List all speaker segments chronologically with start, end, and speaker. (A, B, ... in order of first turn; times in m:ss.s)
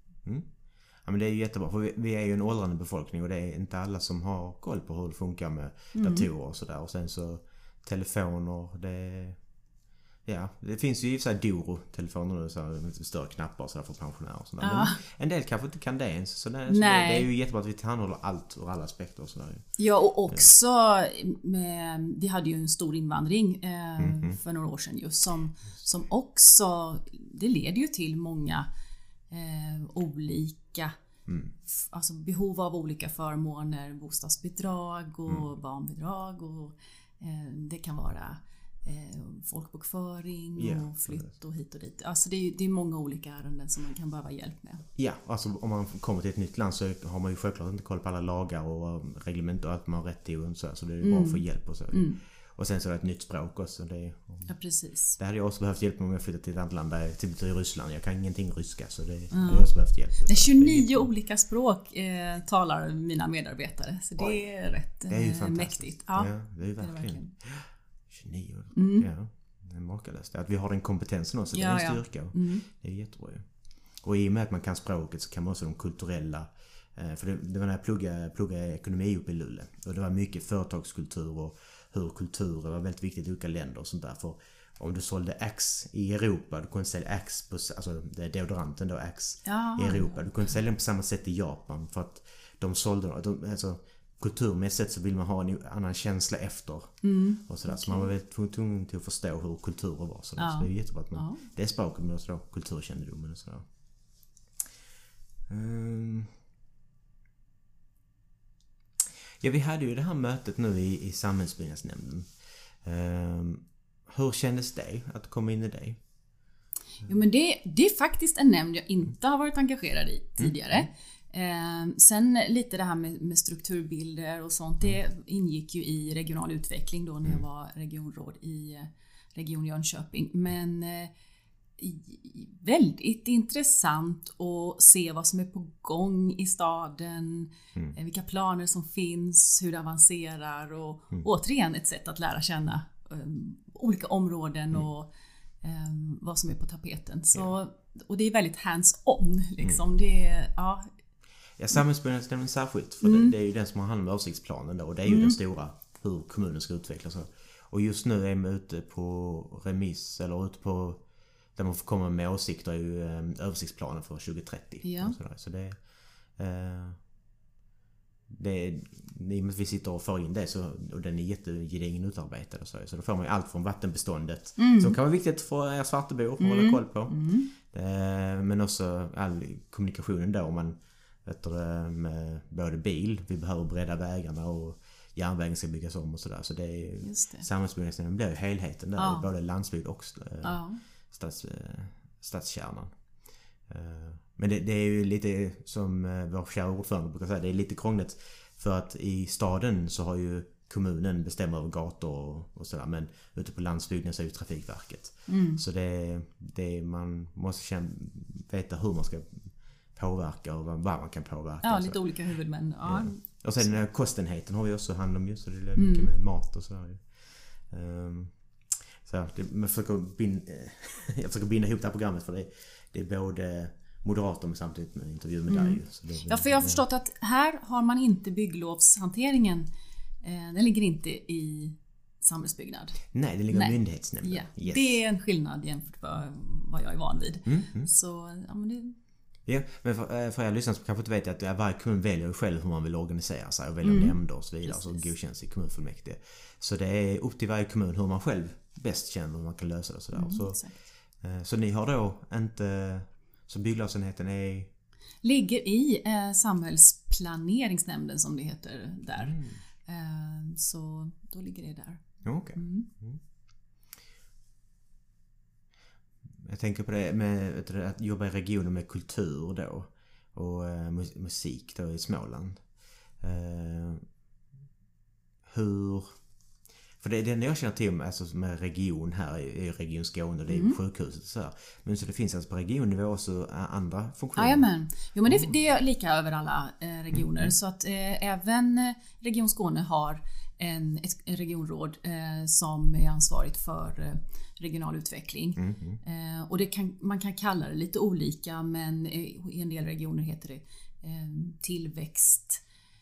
0:00.2-0:09.4 A
0:05.9-0:06.3 B
0:10.2-0:19.7 A
0:14.6-0:15.0 B
0:16.7-0:17.3 B
0:19.8-0:28.7 B
0:24.0-0:24.4 A
0:29.3-0:30.9 B
0:31.3-0:31.5 A
0:31.6-0:44.8 B
0:40.6-0:41.3 A
0:45.0-0:54.6 A
0:51.0-0:52.2 B
0:54.5-0:55.2 B
0:55.1-1:01.1 A
0:59.3-1:07.3 B
1:04.2-1:04.4 A
1:05.1-1:43.7 A
1:08.7-1:09.1 B
1:11.5-1:12.6 B
1:29.4-1:30.2 B
1:37.0-1:38.1 B
1:40.4-1:41.4 B
1:45.5-1:46.3 A
1:49.4-1:52.3 A
1:52.8-1:56.0 A
1:57.0-2:11.1 B
2:00.4-2:00.8 A
2:11.8-2:25.1 B
2:25.6-2:30.9 B
2:31.6-2:47.0 A
2:33.0-2:33.3 B
2:35.1-2:35.4 B
2:44.8-2:45.2 B
2:48.3-3:13.0 A
2:54.6-2:55.0 B
2:56.4-2:57.5 B
3:07.0-3:07.5 B
3:09.0-3:09.3 B
3:10.4-3:10.8 B
3:13.7-3:32.0 A
3:25.3-3:25.6 B
3:31.6-3:33.6 B
3:32.8-3:46.8 A
3:35.8-3:36.1 B
3:45.5-3:49.7 B
3:50.2-3:59.0 B
3:53.1-3:55.0 A
3:57.4-3:57.9 A
3:59.4-4:10.6 A
4:03.8-4:05.1 B
4:10.1-4:10.8 B
4:11.2-4:14.7 A
4:15.2-4:22.9 B
4:19.2-4:19.6 A
4:22.2-4:23.2 A
4:26.4-4:34.0 A
4:35.5-4:36.2 A
4:37.0-4:44.7 A
4:40.5-4:40.8 B
4:44.4-5:02.6 B
4:55.6-4:56.0 A